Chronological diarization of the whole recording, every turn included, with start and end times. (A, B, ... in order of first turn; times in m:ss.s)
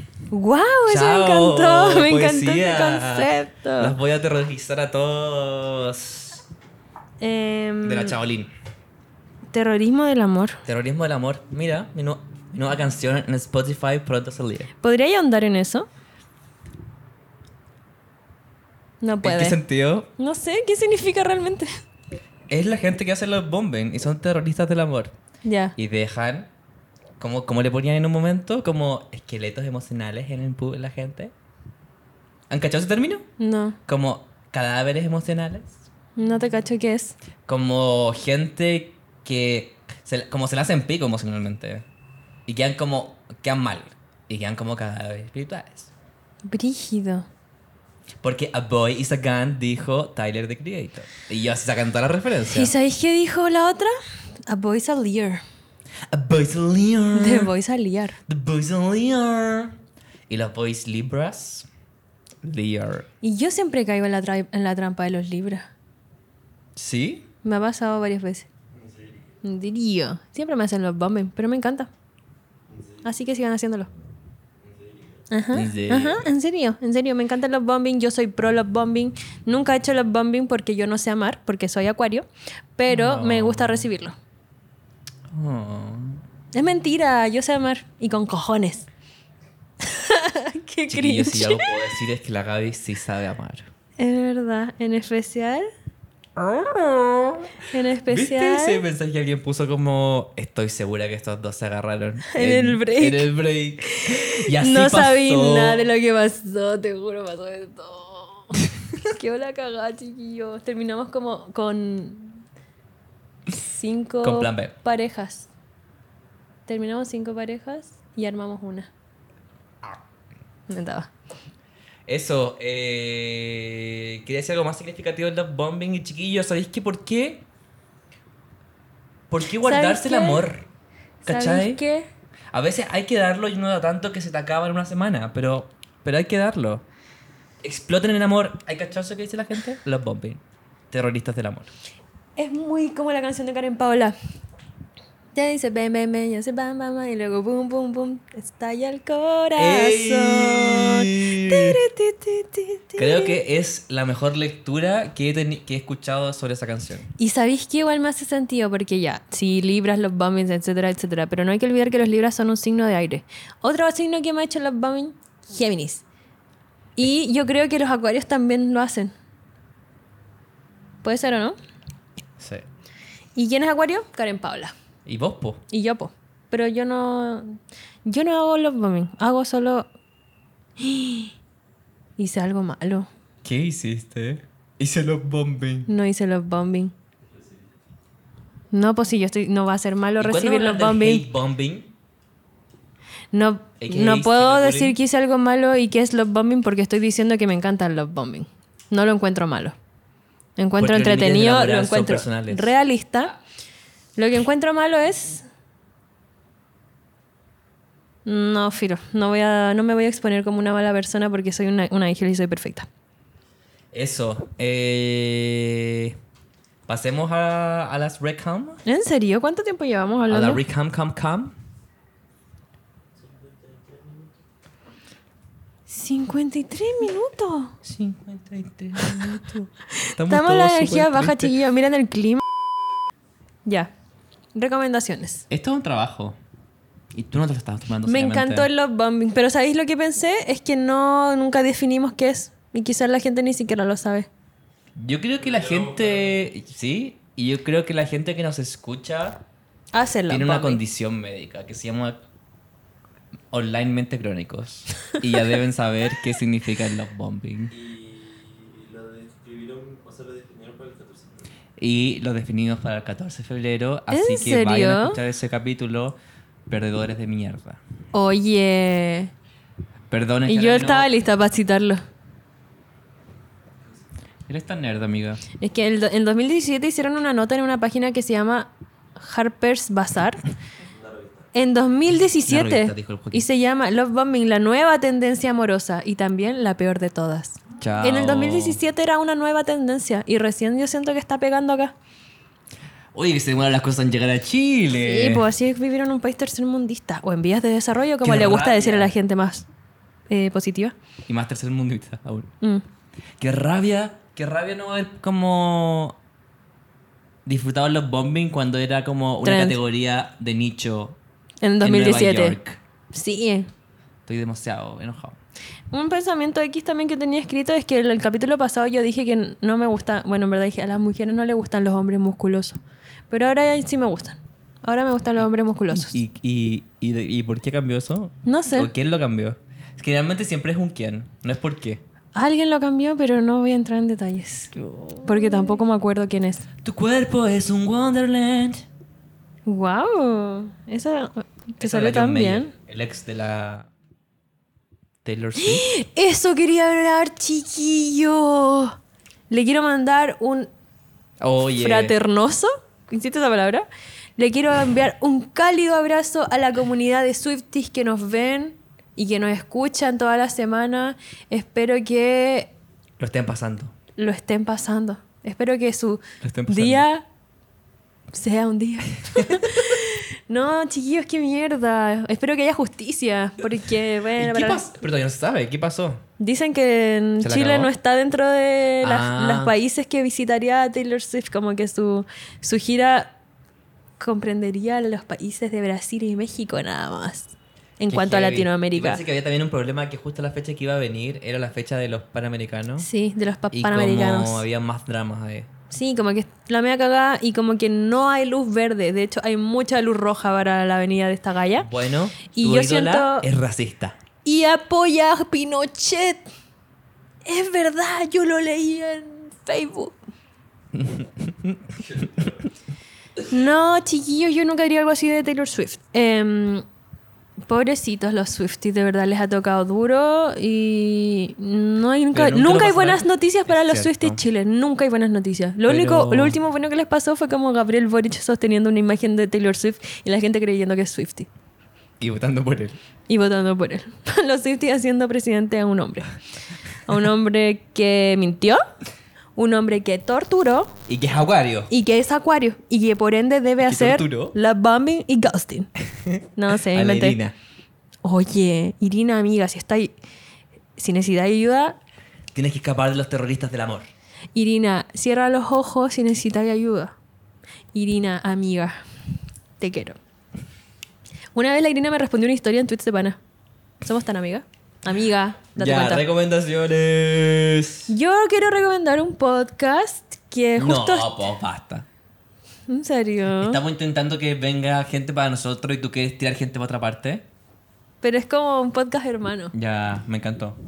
0:00.3-0:03.9 A
0:00.9-0:06.4 B
0:07.2-0:08.2 A
0:07.8-0:08.5 B
0:09.5-0:10.6 A
0:10.6-0:14.7 B
0:14.8-0:15.9 A
0:19.0-0:19.6 A
0:19.2-0:20.1 B
0:20.2-0:21.7 A
0:22.5-0:25.1 B
0:25.4-0:25.7 A
0:25.8-0:26.5 B
0:27.2-0:31.3 B
0:32.5-0:33.3 B
0:33.4-0:33.8 A
0:33.9-0:35.8 B
0:36.2-0:37.1 A
0:37.4-0:41.8 B
0:42.4-0:45.9 B
0:46.5-0:47.3 A
0:48.2-0:52.7 B
0:52.5-0:53.9 A
0:54.5-0:55.4 A
0:56.1-0:57.5 B
0:57.1-0:58.2 A
0:58.3-0:59.8 B
1:00.3-1:01.7 B
1:02.4-1:03.1 B
1:03.2-1:05.7 A
1:06.8-1:07.2 B
1:07.4-1:08.5 A
1:08.7-1:09.3 C
1:09.4-1:11.9 A
1:12.7-1:13.1 C
1:13.0-1:13.9 A
1:14.6-1:15.3 C
1:15.3-1:24.1 A
1:15.5-1:16.3 B
1:22.9-1:23.9 B
1:25.3-1:26.2 B
1:26.5-1:28.9 A
1:29.8-1:31.7 A
1:30.9-1:33.7 B
1:34.0-1:35.6 A
1:36.4-1:45.8 B
1:37.7-1:38.8 A
1:42.3-1:43.3 A
1:43.8-1:48.6 A
1:49.1-1:52.4 A
1:53.5-1:55.5 A
1:54.2-1:54.7 B
1:56.7-1:58.9 A
2:00.7-2:01.1 A
2:02.0-2:07.5 B
2:09.3-2:10.7 B
2:09.6-2:10.4 A
2:11.2-2:11.8 B
2:11.2-2:12.1 A
2:12.5-2:16.8 B
2:17.6-2:21.7 B
2:22.4-2:24.1 A
2:25.3-2:33.4 A
2:29.6-2:31.8 B
2:33.0-2:37.1 B
2:37.2-2:46.0 A
2:47.0-2:49.1 A
2:51.0-2:51.6 A
2:52.4-2:52.6 B
2:53.4-2:54.7 A
2:55.0-2:55.6 B
2:55.7-2:59.9 A
3:00.8-3:01.3 A
3:02.2-3:03.1 A
3:03.4-3:05.9 B
3:05.9-3:06.9 A
3:07.3-3:07.7 C
3:08.7-3:11.2 A
3:10.2-3:11.9 B
3:13.3-3:19.7 A
3:13.8-3:15.0 B
3:20.6-3:23.4 A
3:20.8-3:22.7 B
3:24.2-3:25.4 A
3:28.2-3:32.9 A
3:33.9-3:36.2 B
3:36.9-3:38.8 B
3:38.8-3:40.6 A
3:40.3-3:41.5 B
3:43.2-3:44.4 C
3:45.9-3:47.7 A
3:47.8-3:51.5 B
3:50.0-3:52.4 A
3:53.6-3:53.9 A
3:54.5-3:55.4 A
3:55.5-3:56.4 B
3:57.1-3:58.7 B
3:58.0-4:04.3 A
4:05.0-4:09.4 B
4:05.4-4:06.4 C
4:09.9-4:10.8 A
4:10.3-4:12.2 B
4:13.5-4:17.7 B
4:17.7-4:21.5 C
4:21.8-4:27.8 B
4:24.1-4:25.2 A
4:28.1-4:29.3 A
4:30.1-4:31.1 B
4:30.5-4:32.0 A
4:34.5-4:35.4 B
4:35.6-4:40.4 A
4:40.8-4:41.5 C
4:41.5-4:51.9 A
4:42.4-4:43.4 B
4:47.8-4:48.8 B
4:53.1-4:55.4 B
4:55.0-4:59.6 A
4:58.2-4:59.1 B
5:00.3-5:00.9 A
5:01.3-5:02.5 B
5:03.4-5:06.2 B
5:07.4-5:11.2 B
5:09.4-5:09.8 A
5:11.6-5:12.6 A
5:11.8-5:12.8 B
5:13.1-5:13.7 A
5:14.2-5:15.4 B
5:15.9-5:26.2 A
5:25.9-5:32.0 B
5:28.4-5:28.9 A
5:32.3-5:36.6 A
5:36.8-5:38.8 B
5:39.6-5:42.7 A
5:41.8-5:43.9 B
5:45.2-5:45.8 B
5:45.6-5:49.0 A
5:49.5-5:50.7 A
5:51.4-5:52.1 B
5:51.8-6:02.7 A
6:03.2-6:03.9 B
6:04.2-6:07.2 A
6:06.4-6:07.1 B
6:08.3-6:14.8 A
6:09.4-6:09.6 B
6:14.4-6:16.2 B
6:16.4-6:23.3 A
6:17.4-6:17.9 B
6:19.0-6:19.7 B
6:24.2-6:29.2 A
6:28.1-6:33.1 B
6:33.0-6:34.6 A
6:33.7-6:35.7 B
6:35.9-6:41.9 A
6:41.8-6:44.2 B
6:42.5-6:43.5 A
6:44.4-6:46.4 A
6:47.4-6:50.2 A
6:50.9-6:52.0 B
6:52.0-6:52.6 C
6:53.4-6:56.8 A
6:57.7-7:11.5 A
7:02.3-7:04.4 B
7:05.9-7:06.6 B
7:12.2-7:13.0 B
7:13.3-7:16.3 A
7:17.0-7:18.8 A
7:19.6-7:20.9 A
7:21.1-7:21.9 B
7:21.9-7:25.9 A
7:23.8-7:24.5 B
7:26.2-7:27.6 B
7:26.6-7:27.4 A
7:28.2-7:30.1 A
7:31.0-7:32.0 A
7:32.5-7:34.0 B
7:34.5-7:37.1 A
7:37.9-7:39.0 A
7:39.8-7:40.2 A
7:41.5-7:43.4 A
7:44.0-7:46.2 A
7:45.8-7:48.1 B
7:48.1-7:51.3 A
7:50.8-7:52.1 B
7:52.9-7:53.8 A
7:53.5-7:57.4 B
7:58.2-7:59.7 A
7:59.7-8:00.8 B